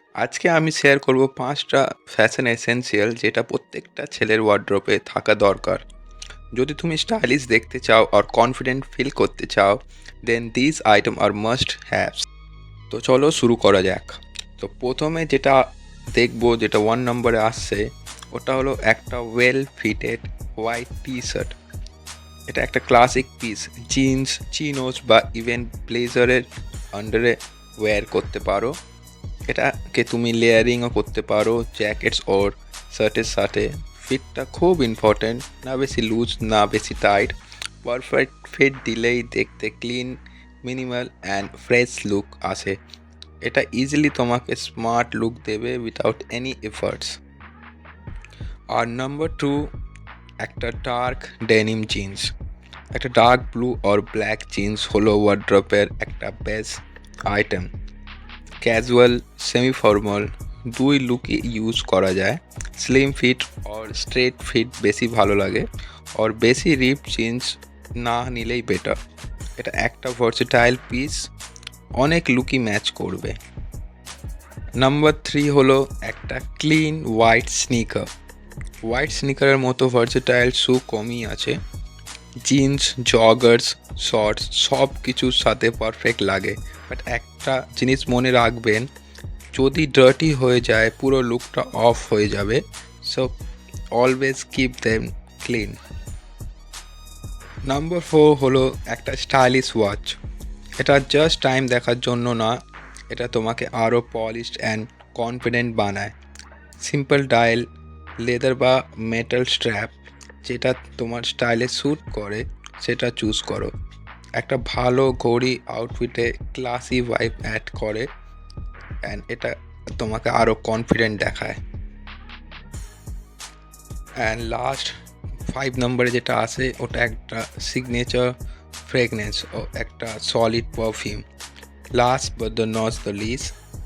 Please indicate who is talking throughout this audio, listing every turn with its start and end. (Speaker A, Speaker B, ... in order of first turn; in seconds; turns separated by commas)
Speaker A: 0.2-5.8, Speaker A: 6.5-12.3, Speaker A: 12.9-21.6, Speaker A: 22.5-28.8, Speaker A: 29.5-42.8, Speaker A: 43.4-47.2, Speaker A: 48.7-49.7, Speaker A: 50.4-52.3, Speaker A: 52.9-57.7, Speaker A: 58.6-69.0, Speaker A: 69.6-71.3, Speaker A: 72.0-73.4, Speaker A: 74.8-78.1, Speaker A: 78.8-81.6, Speaker A: 82.4-88.9, Speaker A: 89.5-93.3, Speaker A: 93.9-95.8, Speaker A: 97.7-100.2, Speaker A: 100.8-106.1, Speaker A: 106.8-107.7, Speaker A: 108.2-113.7, Speaker A: 114.3-118.1, Speaker A: 119.0-121.6, Speaker A: 124.2-124.9, Speaker A: 125.5-131.2, Speaker A: 131.9-133.5